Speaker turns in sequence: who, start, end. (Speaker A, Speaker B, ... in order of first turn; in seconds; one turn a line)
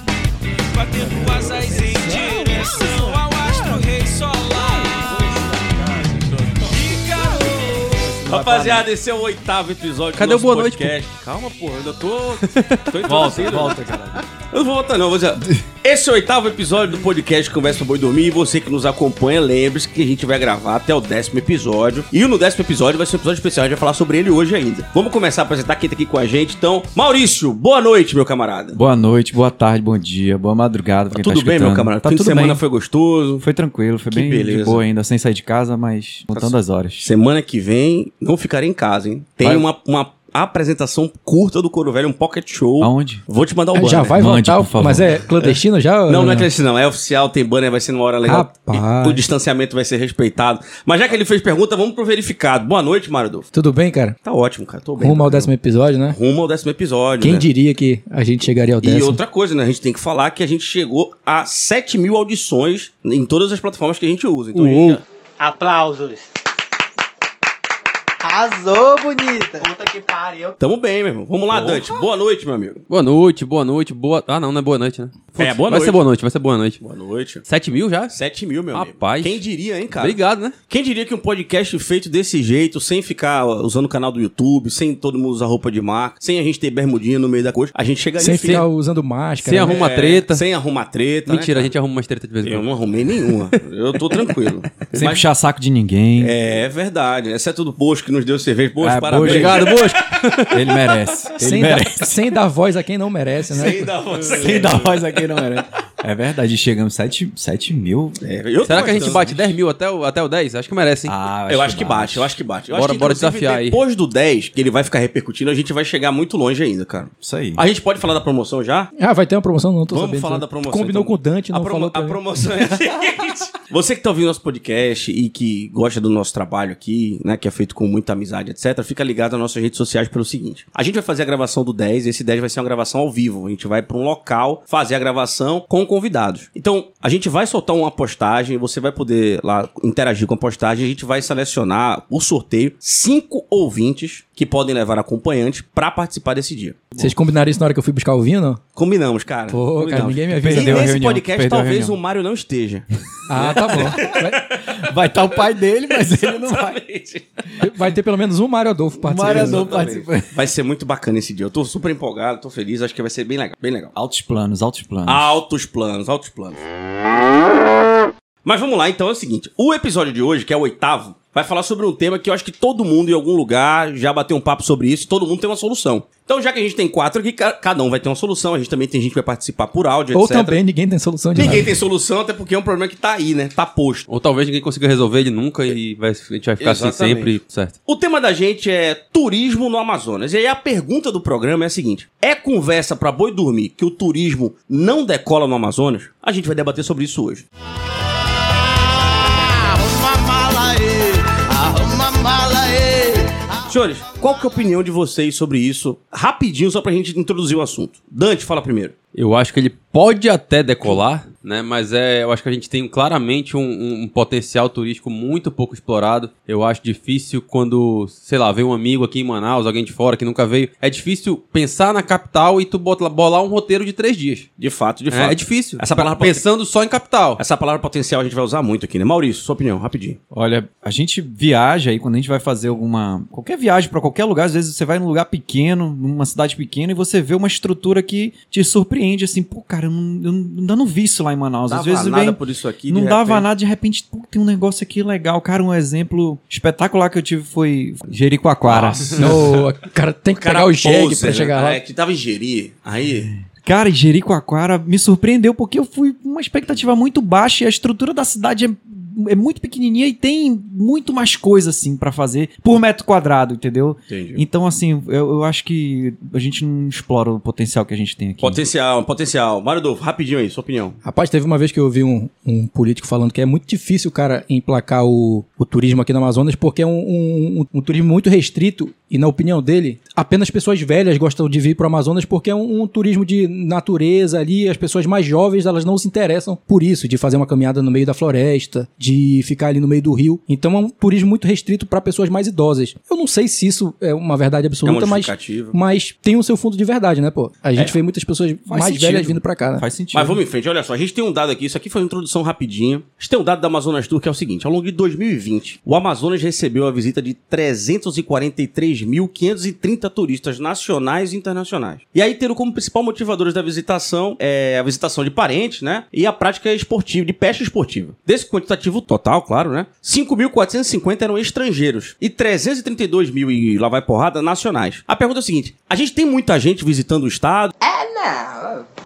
Speaker A: 0.7-5.3
Speaker B: 1.6-2.9
Speaker A: 6.6-8.2
Speaker C: 8.0-8.9
Speaker D: 8.3-13.8
Speaker E: 10.2-10.9
Speaker E: 12.4-13.4
Speaker C: 13.0-14.2
Speaker D: 14.5-28.8
Speaker C: 28.7-32.6
Speaker D: 31.1-33.4
Speaker C: 33.4-37.1
Speaker D: 34.1-34.8
Speaker D: 36.3-44.2
Speaker C: 42.8-43.2
Speaker B: 43.7-46.5
Speaker C: 44.1-45.2
Speaker D: 45.4-53.5
Speaker B: 48.2-49.2
Speaker B: 53.5-54.1
Speaker D: 54.2-55.5
Speaker B: 55.0-56.2
Speaker D: 56.1-57.5
Speaker B: 57.2-59.2
Speaker D: 58.8-65.0
Speaker F: 65.4-66.2
Speaker F: 68.2-70.6
Speaker D: 70.6-72.8
Speaker E: 71.5-71.8
Speaker E: 72.9-76.8
Speaker D: 75.4-76.0
Speaker D: 76.8-77.4
Speaker E: 77.5-78.2
Speaker D: 78.1-80.2
Speaker E: 78.7-79.4
Speaker E: 79.9-80.6
Speaker D: 80.7-88.7
Speaker B: 88.2-89.8
Speaker E: 89.4-90.4
Speaker D: 89.6-91.7
Speaker E: 91.3-93.6
Speaker D: 92.4-95.2
Speaker C: 94.9-96.3
Speaker D: 96.2-99.9
Speaker C: 98.8-102.2
Speaker E: 99.2-100.5
Speaker B: 101.4-103.9
Speaker D: 103.5-105.2
Speaker C: 104.3-109.5
Speaker D: 108.2-109.2
Speaker E: 108.6-111.1
Speaker C: 111.1-112.3
Speaker D: 111.5-118.9
Speaker E: 112.7-113.8
Speaker C: 117.2-117.6
Speaker B: 119.0-122.2
Speaker D: 119.9-146.9
Speaker B: 147.0-148.6
Speaker D: 148.7-152.8
Speaker B: 149.5-150.9
Speaker C: 150.4-152.0
Speaker B: 153.3-154.5
Speaker D: 153.4-154.8
Speaker C: 153.4-156.8
Speaker D: 156.1-157.4
Speaker B: 157.6-159.7
Speaker C: 159.0-160.4
Speaker D: 159.2-163.9
Speaker C: 163.9-165.4
Speaker D: 165.1-166.6
Speaker D: 168.4-180.6
Speaker B: 180.1-181.7
Speaker D: 181.3-184.0
Speaker E: 184.1-187.7
Speaker D: 186.6-197.4
Speaker A: 199.4-203.5
Speaker D: 203.7-208.9
Speaker E: 209.1-224.5
Speaker D: 224.6-226.4
Speaker E: 225.1-227.4
Speaker D: 227.4-230.2
Speaker C: 230.3-249.2
Speaker D: 241.7-243.5
Speaker D: 248.6-249.6
Speaker B: 249.2-251.8
Speaker D: 250.3-253.3
Speaker C: 253.6-268.6
Speaker D: 264.1-264.4
Speaker D: 268.4-271.0
Speaker B: 271.0-299.9
Speaker D: 294.8-295.8
Speaker C: 298.7-300.4
Speaker D: 300.1-327.7
Speaker F: 327.8-328.8